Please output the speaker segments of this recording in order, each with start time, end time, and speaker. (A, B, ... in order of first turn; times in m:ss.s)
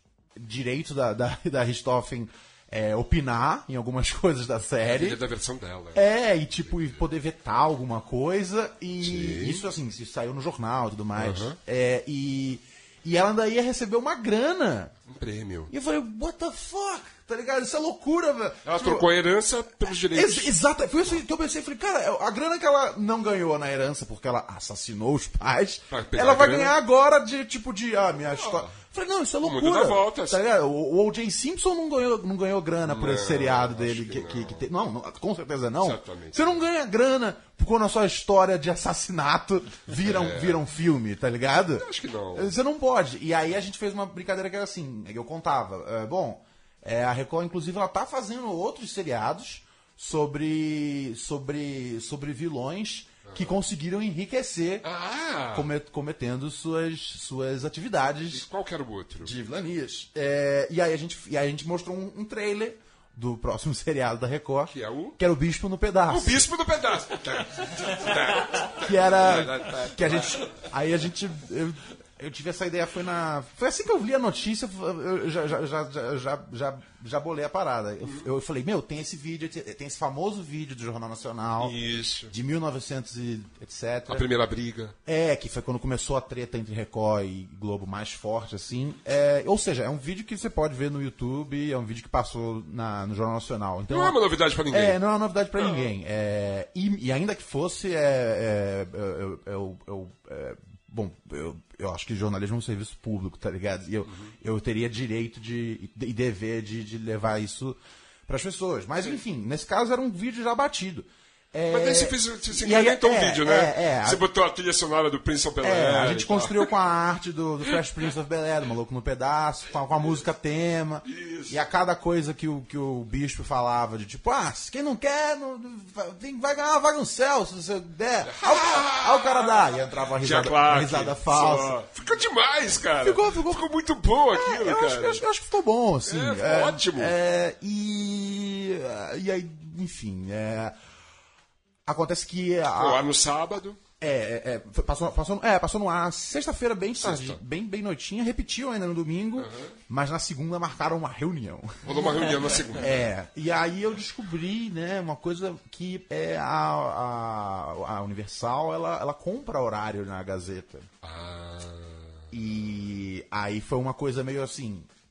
0:00.4-0:05.2 A
0:04.8-0:06.1 B
0:05.9-0:14.9 A
0:06.6-0:06.9 B
0:09.0-0:09.6 B
0:11.2-0:11.6 B
0:15.1-0:15.7 B
0:15.7-0:19.1 A
0:18.6-0:20.5 B
0:20.1-0:54.9 A
0:25.9-0:26.8 B
0:28.3-0:28.7 B
0:29.4-0:30.4 B
0:32.8-0:34.6 B
0:35.8-0:36.6 B
0:40.0-0:40.6 B
0:41.8-0:42.5 B
0:53.3-0:53.5 B
0:54.8-0:55.7 B
0:55.5-0:58.4 A
0:58.3-0:59.3 B
0:59.2-1:06.4 A
1:04.7-1:05.2 B
1:06.1-1:10.5 B
1:08.8-1:21.8 A
1:21.6-1:22.3 B
1:22.3-1:24.2 A
1:24.1-1:25.0 B
1:25.0-1:54.2 A
1:33.9-1:35.0 B
1:35.6-1:35.9 B
1:44.1-1:44.3 B
1:51.7-1:56.7 B
1:55.6-2:11.8 A
2:01.0-2:01.6 B
2:08.2-2:15.2 B
2:13.0-2:13.7 A
2:14.3-2:20.8 A
2:16.0-2:17.1 B
2:21.8-2:23.1 A
2:22.8-2:23.8 B
2:24.0-2:40.9 A
2:27.0-2:27.4 B
2:29.4-2:29.7 B
2:31.8-2:33.1 B
2:41.0-2:42.2 B
2:42.3-2:44.9 A